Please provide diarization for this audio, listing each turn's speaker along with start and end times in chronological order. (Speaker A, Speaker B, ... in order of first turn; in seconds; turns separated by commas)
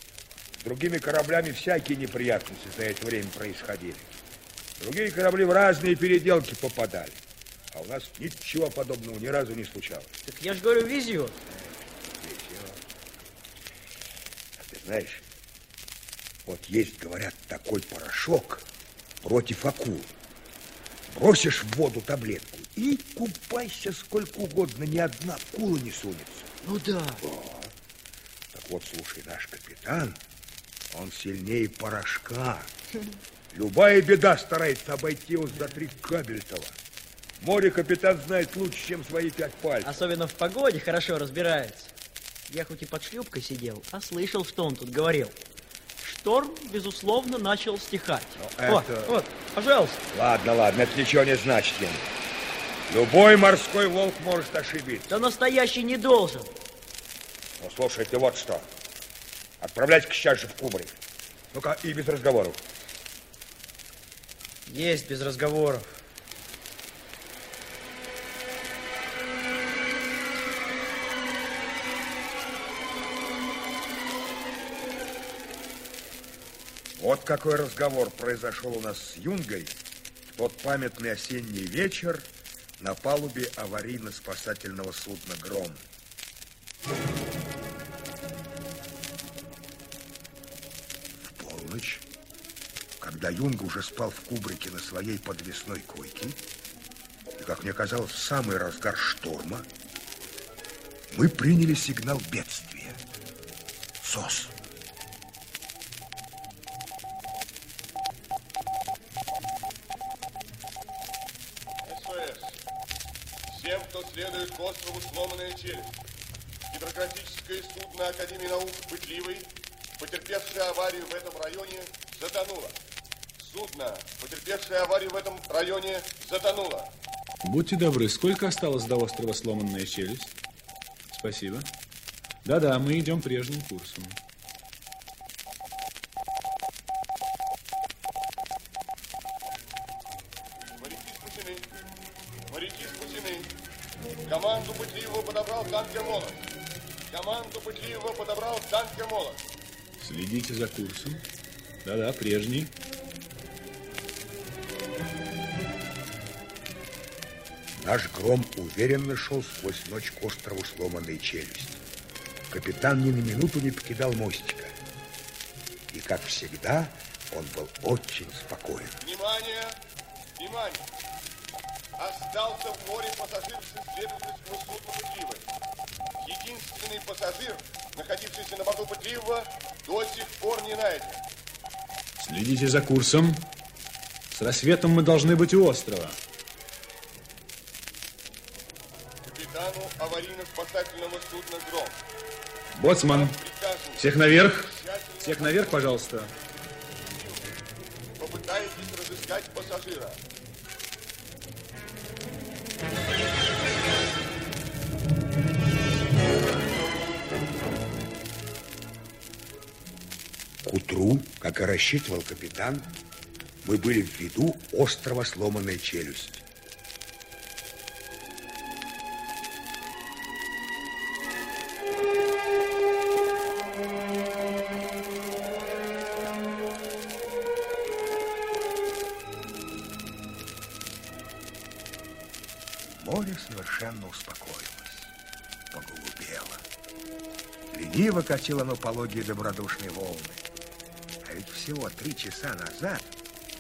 Speaker A: 0.6-4.2, Speaker A: 4.8-7.2, Speaker A: 7.7-10.2, Speaker B: 10.3-11.4, Speaker A: 11.5-12.9, Speaker A: 14.6-15.2, Speaker A: 16.4-18.7, Speaker A: 19.2-20.1, Speaker A: 21.1-26.5, Speaker B: 26.6-27.2, Speaker A: 27.2-27.7, Speaker A: 28.5-30.2, Speaker A: 30.9-32.7, Speaker A: 33.5-36.8, Speaker A: 37.4-40.1, Speaker B: 39.8-41.9, Speaker B: 42.5-45.4, Speaker B: 46.0-50.0, Speaker A: 48.4-49.2, Speaker A: 50.1-52.1, Speaker A: 52.9-55.2, Speaker B: 55.1-56.5, Speaker A: 57.6-58.7, Speaker A: 59.6-61.0, Speaker A: 61.5-62.6, Speaker B: 64.7-65.9, Speaker A: 77.0-79.8, Speaker A: 80.3-85.8, Speaker A: 91.2-92.1, Speaker A: 93.0-96.4, Speaker A: 97.3-99.7, Speaker A: 101.1-103.0, Speaker A: 104.0-104.6, Speaker C: 111.8-112.6, Speaker C: 113.5-116.0, Speaker C: 116.7-122.8, Speaker C: 123.4-126.9, Speaker D: 127.4-130.3, Speaker D: 131.1-131.7, Speaker D: 132.4-134.2, Speaker C: 140.8-141.7, Speaker C: 142.5-143.5, Speaker C: 144.3-146.5, Speaker C: 147.1-149.4, Speaker D: 150.0-151.2, Speaker D: 151.8-152.7, Speaker A: 157.8-161.8, Speaker A: 162.5-164.7, Speaker A: 165.9-169.0, Speaker C: 169.0-169.8, Speaker C: 170.4-170.9, Speaker C: 172.0-175.4, Speaker C: 176.2-181.2, Speaker D: 182.2-183.5, Speaker D: 184.3-186.2, Speaker C: 189.2-192.0, Speaker D: 192.8-193.4, Speaker C: 193.1-196.0, Speaker D: 194.0-196.3, Speaker C: 197.1-197.5, Speaker C: 198.2-200.2, Speaker A: 210.6-212.9, Speaker A: 213.6-216.4, Speaker A: 232.8-235.1, Speaker A: 235.7-236.7, Speaker A: 237.7-240.4, Speaker A: 241.2-243.1